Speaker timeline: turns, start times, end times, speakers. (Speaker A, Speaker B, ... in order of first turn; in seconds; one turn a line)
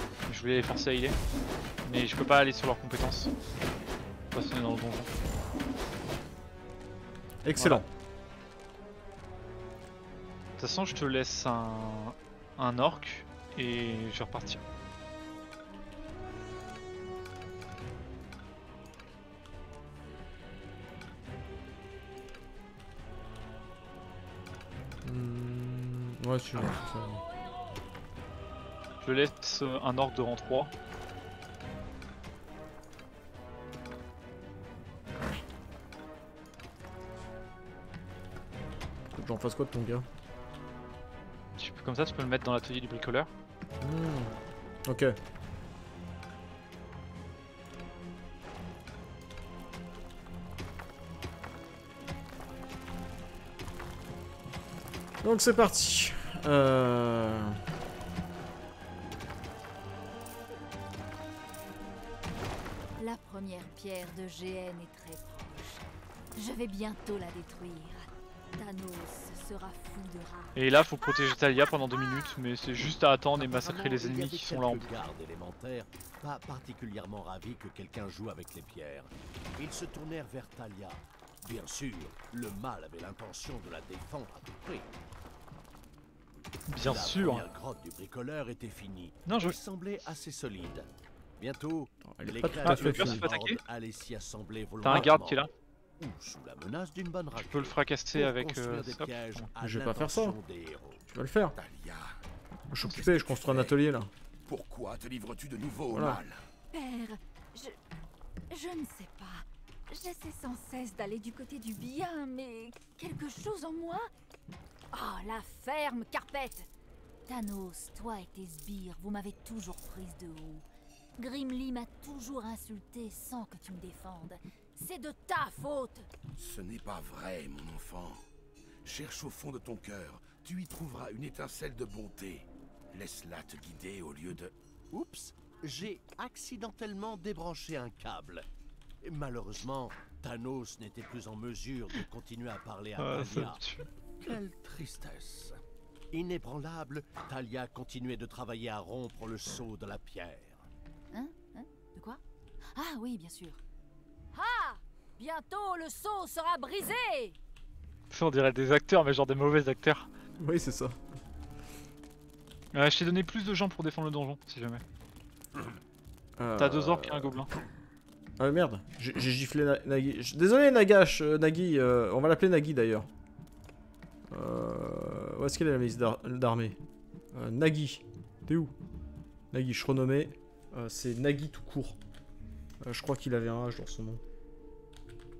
Speaker A: 0.3-1.1
Speaker A: 1.8-3.3
Speaker A: 4.3-5.1
Speaker B: 7.4-7.9
Speaker A: 7.6-7.8
Speaker A: 10.6-14.6
Speaker B: 25.0-27.2
Speaker A: 29.0-30.7
Speaker B: 39.1-40.0
Speaker A: 41.6-43.3
Speaker B: 43.8-44.3
Speaker B: 44.9-45.1
Speaker B: 55.2-57.6
Speaker C: 63.0-70.6
Speaker A: 70.5-74.9
Speaker D: 73.4-84.9
Speaker A: 86.7-87.4
Speaker D: 86.8-95.4
Speaker A: 89.3-89.5
Speaker B: 92.1-93.2
Speaker A: 92.6-93.6
Speaker A: 94.8-95.5
Speaker D: 96.0-101.0
Speaker A: 97.3-99.5
Speaker B: 99.6-100.3
Speaker B: 101.1-101.5
Speaker E: 101.5-102.2
Speaker B: 102.7-104.1
Speaker E: 103.1-103.8
Speaker E: 104.5-106.4
Speaker B: 105.9-106.2
Speaker C: 106.7-107.8
Speaker C: 108.5-114.1
Speaker C: 114.9-116.7
Speaker C: 117.3-120.6
Speaker C: 121.2-126.1
Speaker E: 126.3-128.2
Speaker E: 128.8-134.5
Speaker D: 134.9-138.4
Speaker D: 139.0-143.6
Speaker A: 143.0-143.9
Speaker D: 144.2-145.6
Speaker D: 146.1-150.6
Speaker C: 151.1-152.2
Speaker C: 152.7-153.6
Speaker C: 154.3-157.3
Speaker A: 158.1-160.1
Speaker B: 160.4-161.0
Speaker A: 162.7-164.8
Speaker B: 166.4-167.5
Speaker A: 166.6-167.5
Speaker B: 168.4-173.1
Speaker B: 174.3-176.8
Speaker B: 177.3-178.7
Speaker B: 179.5-182.0
Speaker B: 182.8-184.2